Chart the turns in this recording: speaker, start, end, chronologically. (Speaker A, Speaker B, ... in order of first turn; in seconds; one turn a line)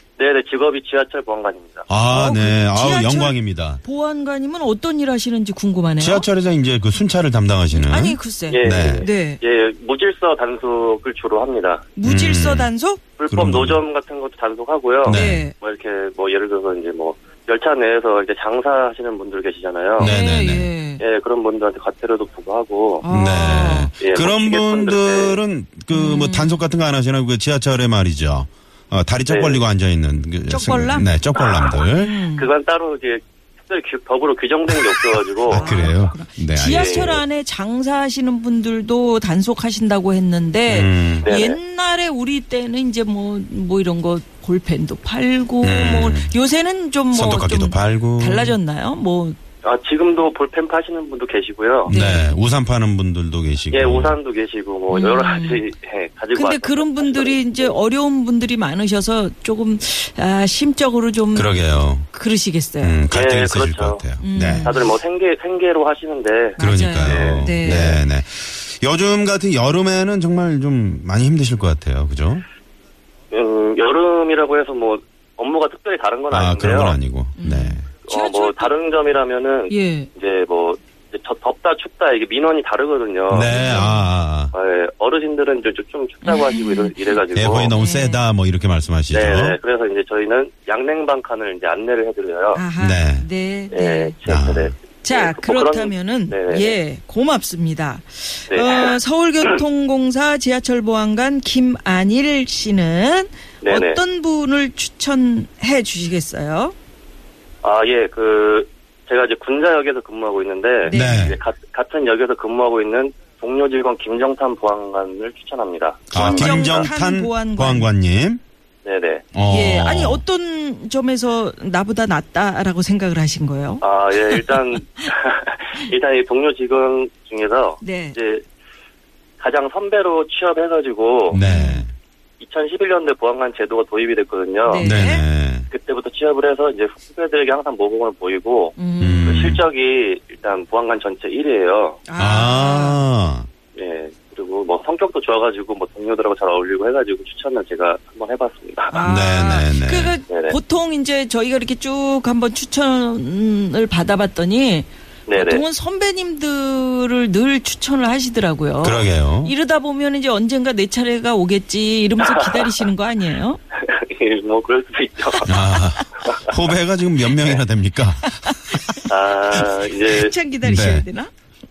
Speaker A: 0.2-1.9
Speaker B: 1.9-3.8
Speaker C: 2.1-6.3
Speaker B: 6.0-9.0
Speaker C: 7.7-9.4
Speaker A: 8.5-11.9
Speaker C: 11.9-13.0
Speaker B: 12.0-12.7
Speaker A: 13.2-20.1
Speaker B: 13.3-13.8
Speaker B: 15.0-15.5
Speaker C: 15.1-15.5
Speaker B: 20.0-20.7
Speaker C: 20.0-21.0
Speaker A: 21.0-23.1
Speaker C: 23.0-23.9
Speaker B: 23.1-32.2
Speaker A: 24.0-25.4
Speaker C: 25.9-26.6
Speaker A: 29.3-29.6
Speaker C: 30.5-31.1
Speaker C: 31.9-32.5
Speaker A: 32.3-35.9
Speaker B: 35.4-37.2
Speaker C: 35.5-49.4
Speaker A: 36.7-37.2
Speaker B: 40.7-41.3
Speaker A: 41.2-41.6
Speaker B: 45.6-46.4
Speaker B: 47.1-48.5
Speaker A: 49.6-51.9
Speaker B: 51.9-54.2
Speaker C: 51.9-52.4
Speaker A: 53.7-57.8
Speaker C: 54.9-55.6
Speaker C: 56.3-61.5
Speaker B: 61.3-62.1
Speaker C: 62.1-63.0
Speaker B: 62.8-64.8
Speaker A: 63.1-68.0
Speaker C: 64.2-64.8
Speaker C: 66.6-67.9
Speaker B: 66.6-72.4
Speaker A: 73.3-77.0
Speaker B: 76.3-77.8
Speaker C: 77.4-78.7
Speaker A: 78.0-83.9
Speaker C: 79.7-80.1
Speaker B: 83.3-84.5
Speaker C: 83.4-84.1
Speaker A: 84.5-87.7
Speaker C: 86.2-87.0
Speaker B: 87.3-89.6
Speaker C: 87.7-88.2
Speaker A: 89.1-92.6
Speaker C: 92.5-94.2
Speaker B: 92.8-93.2
Speaker A: 93.7-96.8
Speaker B: 94.2-94.7
Speaker C: 95.0-106.7
Speaker A: 98.5-99.6
Speaker A: 103.6-104.0
Speaker A: 107.6-116.9
Speaker C: 110.8-111.3
Speaker B: 110.9-111.4
Speaker C: 116.1-117.9
Speaker B: 116.1-118.4
Speaker A: 118.8-119.2
Speaker B: 119.3-120.2
Speaker C: 119.5-123.8
Speaker A: 123.8-128.4
Speaker C: 127.8-128.2
Speaker A: 129.4-131.4
Speaker B: 131.3-131.9
Speaker C: 131.3-131.8
Speaker A: 132.4-134.9
Speaker C: 134.6-135.3
Speaker B: 134.8-135.7
Speaker A: 135.7-142.0
Speaker C: 138.8-139.5
Speaker B: 139.0-139.6
Speaker C: 142.1-143.0
Speaker B: 142.2-143.5
Speaker A: 143.7-149.0
Speaker C: 148.9-163.6
Speaker B: 149.0-150.2
Speaker A: 150.3-150.6
Speaker A: 155.3-155.6
Speaker B: 158.8-159.5
Speaker A: 162.2-162.8
Speaker A: 163.8-165.5
Speaker B: 165.4-169.0
Speaker C: 168.4-168.9
Speaker A: 169.1-170.3
Speaker C: 170.0-171.3
Speaker B: 170.6-171.1